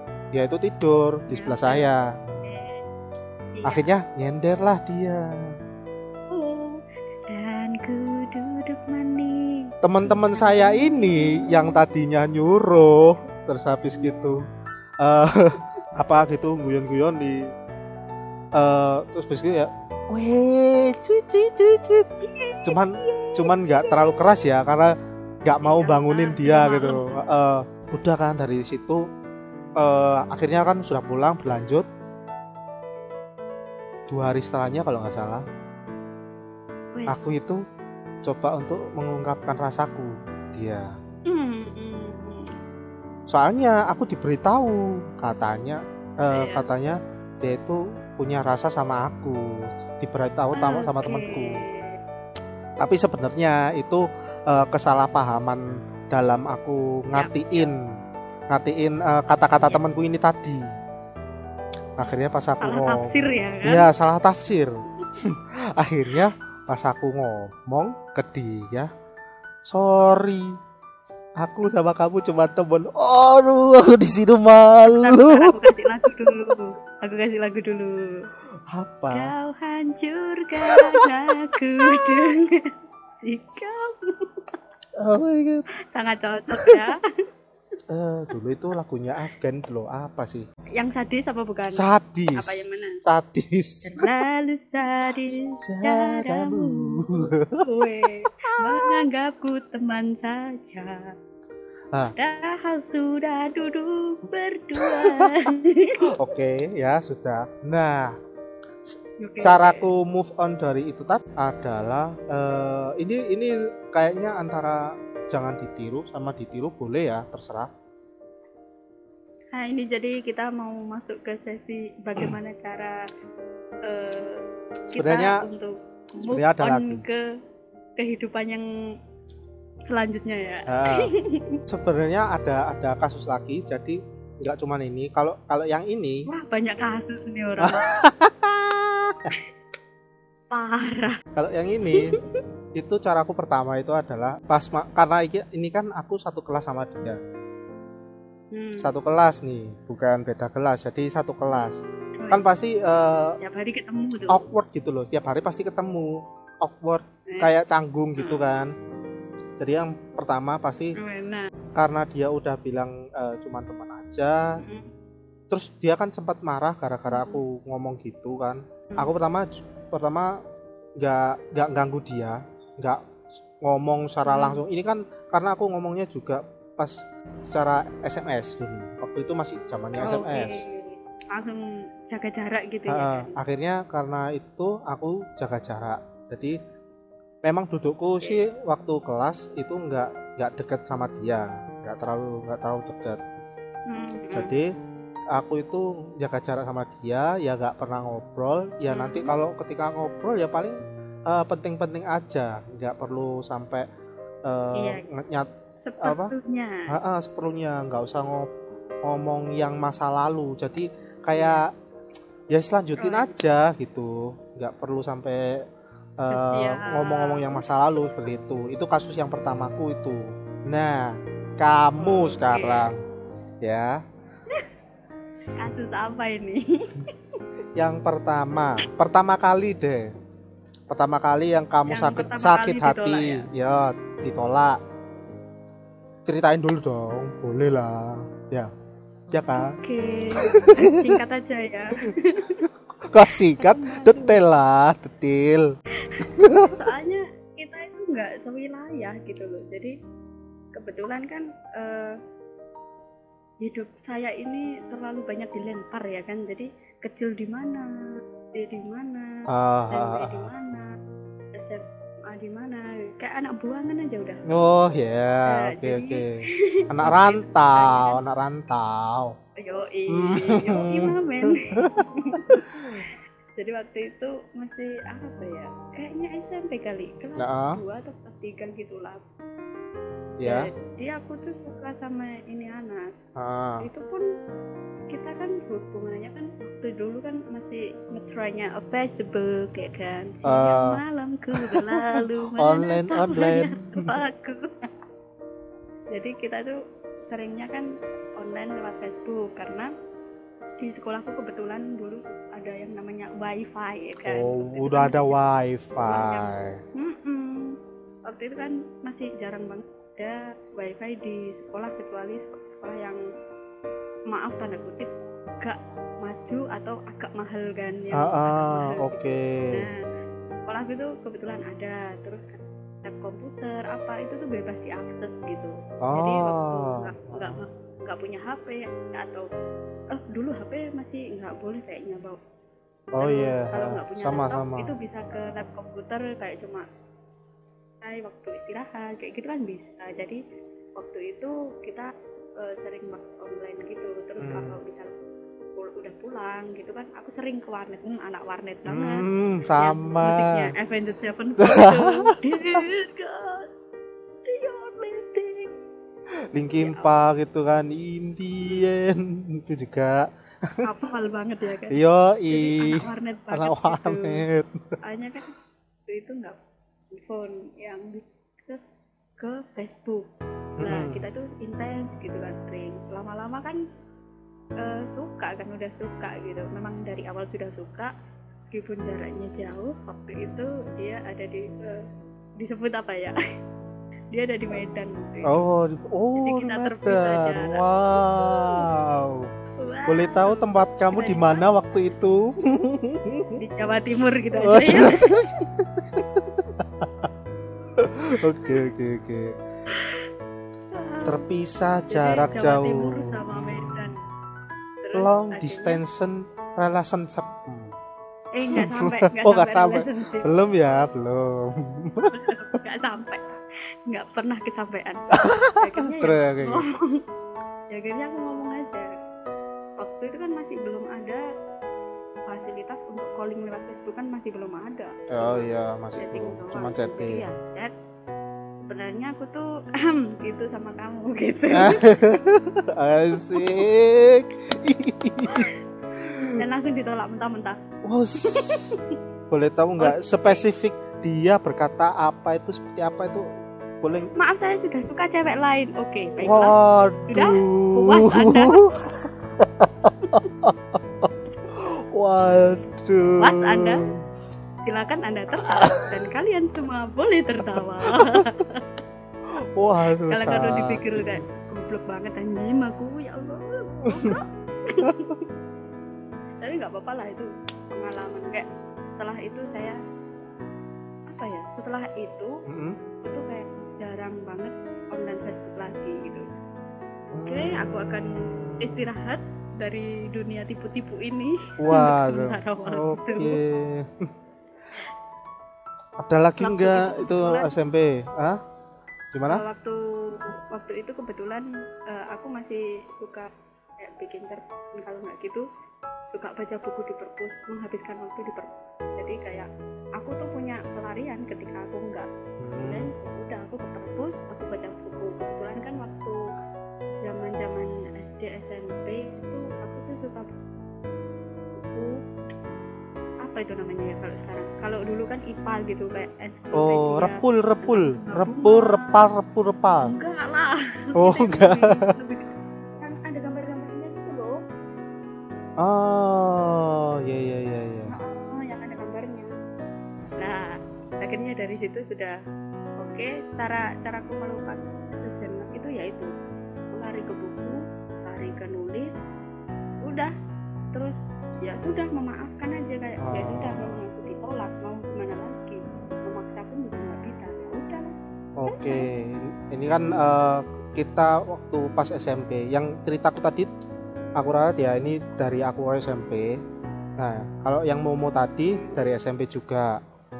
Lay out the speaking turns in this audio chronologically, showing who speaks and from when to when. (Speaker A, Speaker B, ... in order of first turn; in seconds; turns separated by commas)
Speaker A: 0.3-2.0, Speaker B: 1.3-1.9, Speaker B: 2.4-2.8, Speaker B: 3.5-3.9, Speaker A: 3.6-5.3, Speaker B: 6.3-11.8, Speaker A: 9.8-14.4, Speaker B: 13.9-14.3, Speaker A: 15.0-17.5, Speaker A: 18.6-22.1, Speaker B: 22.2-24.2, Speaker A: 22.6-29.0, Speaker B: 25.6-27.1, Speaker A: 29.8-31.9, Speaker A: 34.1-35.4, Speaker B: 36.9-37.3, Speaker A: 37.1-37.6, Speaker A: 38.2-40.9, Speaker B: 41.3-42.5, Speaker A: 43.3-51.6, Speaker B: 46.3-46.7, Speaker B: 50.5-52.0, Speaker A: 52.8-57.8, Speaker B: 57.1-57.7, Speaker A: 58.5-60.7, Speaker B: 59.6-59.8, Speaker A: 62.0-63.1, Speaker B: 62.6-63.9, Speaker A: 63.6-68.9, Speaker A: 69.7-70.5, Speaker A: 71.4-75.5, Speaker B: 74.8-78.3, Speaker A: 78.7-79.3, Speaker B: 79.1-84.5, Speaker A: 80.6-81.1, Speaker A: 81.8-82.2, Speaker A: 85.0-85.6, Speaker B: 85.9-87.0, Speaker A: 86.5-86.8, Speaker A: 87.9-90.4, Speaker B: 90.8-93.0, Speaker A: 91.8-94.1, Speaker B: 93.8-101.1, Speaker A: 95.6-97.6, Speaker A: 98.5-99.0, Speaker B: 102.2-106.1, Speaker A: 104.8-105.4, Speaker A: 106.0-108.1, Speaker A: 108.9-117.7, Speaker B: 109.2-109.9, Speaker B: 119.5-123.0, Speaker B: 123.8-124.4, Speaker B: 124.9-127.2, Speaker A: 125.0-125.5, Speaker A: 126.2-127.0, Speaker B: 128.0-128.7, Speaker B: 129.8-131.6, Speaker A: 130.7-131.1, Speaker A: 131.7-136.3, Speaker B: 136.3-137.9, Speaker A: 137.6-139.3, Speaker B: 140.5-141.2, Speaker A: 141.3-142.2, Speaker B: 141.9-142.4, Speaker A: 142.7-147.2, Speaker B: 148.5-148.9, Speaker A: 148.8-153.4, Speaker B: 152.2-152.4, Speaker B: 153.4-154.4, Speaker A: 154.3-158.7, Speaker B: 158.2-158.4, Speaker A: 159.6-161.0, Speaker B: 161.0-161.5, Speaker A: 161.7-164.6, Speaker B: 164.6-164.9, Speaker A: 165.5-170.4, Speaker B: 167.1-167.4, Speaker A: 171.0-173.0, Speaker A: 173.6-180.6, Speaker B: 174.2-174.6, Speaker B: 179.9-183.3, Speaker A: 182.9-186.6, Speaker A: 187.4-193.2, Speaker B: 193.9-194.5, Speaker A: 194.3-194.7, Speaker A: 195.3-200.8, Speaker B: 198.9-199.3, Speaker A: 201.3-203.8, Speaker A: 204.4-205.5, Speaker B: 204.7-205.1, Speaker B: 205.8-206.9, Speaker A: 206.0-206.3, Speaker A: 206.9-208.5, Speaker A: 209.1-211.7, Speaker B: 211.4-211.6, Speaker A: 212.5-215.6, Speaker B: 213.0-213.3, Speaker A: 216.2-222.9, Speaker B: 216.3-217.7, Speaker B: 222.0-222.9, Speaker A: 223.6-224.0, Speaker B: 225.6-227.1, Speaker A: 227.8-230.1, Speaker A: 230.9-234.8, Speaker B: 231.9-233.5, Speaker A: 236.2-238.7, Speaker A: 239.3-239.7, Speaker B: 239.5-242.7, Speaker A: 240.4-241.2, Speaker A: 242.0-245.7, Speaker B: 243.3-244.4, Speaker B: 246.1-249.9, Speaker A: 246.4-246.8, Speaker B: 250.7-252.2, Speaker B: 253.6-257.9, Speaker B: 258.5-260.9, Speaker A: 259.5-260.5, Speaker B: 261.5-264.5, Speaker A: 264.5-266.2, Speaker B: 265.5-268.2, Speaker A: 266.9-269.3, Speaker B: 269.6-279.2, Speaker A: 270.1-273.0, Speaker A: 277.4-277.8, Speaker A: 280.4-280.7, Speaker B: 280.4-283.1, Speaker A: 283.4-283.9, Speaker B: 283.8-284.3, Speaker B: 285.1-294.9, Speaker A: 290.4-291.0, Speaker A: 291.5-294.1, Speaker B: 296.1-296.8, Speaker B: 297.3-299.9, Speaker B: 300.8-305.4, Speaker A: 304.2-306.8, Speaker B: 306.0-307.8, Speaker B: 308.3-313.2, Speaker B: 314.3-320.1, Speaker A: 318.1-319.9, Speaker B: 320.7-329.5, Speaker A: 326.0-327.6, Speaker B: 330.1-332.4, Speaker A: 333.1-334.9, Speaker B: 333.2-336.8, Speaker B: 338.0-340.4, Speaker B: 340.9-345.1, Speaker A: 344.4-344.8, Speaker B: 345.7-353.7, Speaker A: 348.9-350.7, Speaker A: 351.6-352.8, Speaker B: 354.4-355.7, Speaker A: 356.5-360.9, Speaker B: 356.8-357.1, Speaker B: 360.8-362.0, Speaker A: 361.9-364.9, Speaker B: 362.5-364.4, Speaker B: 365.0-365.5, Speaker B: 366.1-366.6, Speaker B: 367.1-373.8, Speaker A: 370.8-371.2, Speaker B: 374.8-378.1, Speaker B: 378.7-382.0, Speaker B: 382.6-383.4, Speaker B: 384.3-385.6, Speaker A: 385.4-389.5, Speaker B: 386.4-388.9, Speaker B: 389.8-391.6, Speaker A: 390.1-393.6, Speaker B: 393.5-395.4, Speaker A: 394.6-397.3, Speaker A: 398.0-399.5, Speaker B: 399.9-400.2, Speaker B: 400.9-401.4, Speaker A: 401.2-404.1, Speaker B: 402.1-404.1, Speaker B: 405.0-406.0, Speaker A: 405.1-407.9, Speaker B: 408.5-410.5, Speaker A: 408.7-412.4, Speaker B: 412.3-413.4, Speaker B: 414.1-417.2, Speaker A: 415.3-416.8, Speaker B: 417.9-419.1, Speaker B: 420.0-421.4, Speaker B: 422.5-427.9, Speaker A: 425.3-427.4, Speaker B: 428.8-432.2, Speaker A: 431.7-436.6, Speaker B: 433.4-433.8, Speaker B: 435.5-435.7, Speaker B: 436.6-437.8, Speaker A: 438.1-438.9, Speaker B: 438.4-439.1, Speaker A: 439.5-443.5, Speaker B: 440.0-440.7, Speaker A: 444.0-444.3, Speaker B: 444.3-446.8, Speaker A: 446.4-454.1, Speaker B: 447.3-448.8, Speaker B: 453.4-454.1, Speaker B: 454.8-458.8, Speaker A: 455.6-456.1, Speaker A: 457.6-458.4, Speaker A: 459.8-461.4, Speaker B: 460.3-465.4, Speaker A: 464.1-464.4, Speaker B: 466.6-468.7, Speaker B: 469.2-470.0, Speaker B: 471.3-472.6, Speaker A: 472.6-473.0, Speaker B: 473.2-476.4, Speaker A: 477.3-479.1, Speaker B: 477.4-483.6, Speaker A: 481.8-484.3, Speaker A: 486.2-488.6, Speaker B: 486.6-487.8, Speaker A: 489.3-489.6, Speaker B: 489.5-495.6, Speaker B: 496.3-502.3, Speaker A: 502.6-503.1, Speaker B: 502.8-506.4, Speaker B: 507.2-510.5, Speaker B: 511.7-512.2, Speaker B: 513.4-519.2, Speaker A: 516.8-520.1, Speaker B: 520.0-524.6, Speaker A: 521.1-522.1, Speaker A: 525.8-528.1, Speaker B: 528.1-529.5, Speaker B: 530.4-532.4, Speaker B: 533.0-536.3, Speaker B: 536.9-539.2, Speaker B: 540.0-540.3, Speaker B: 540.9-548.1, Speaker A: 543.2-543.9, Speaker A: 548.6-553.7, Speaker B: 548.6-549.1, Speaker B: 549.9-550.2, Speaker A: 554.4-556.5, Speaker A: 557.2-560.0, Speaker B: 558.7-559.0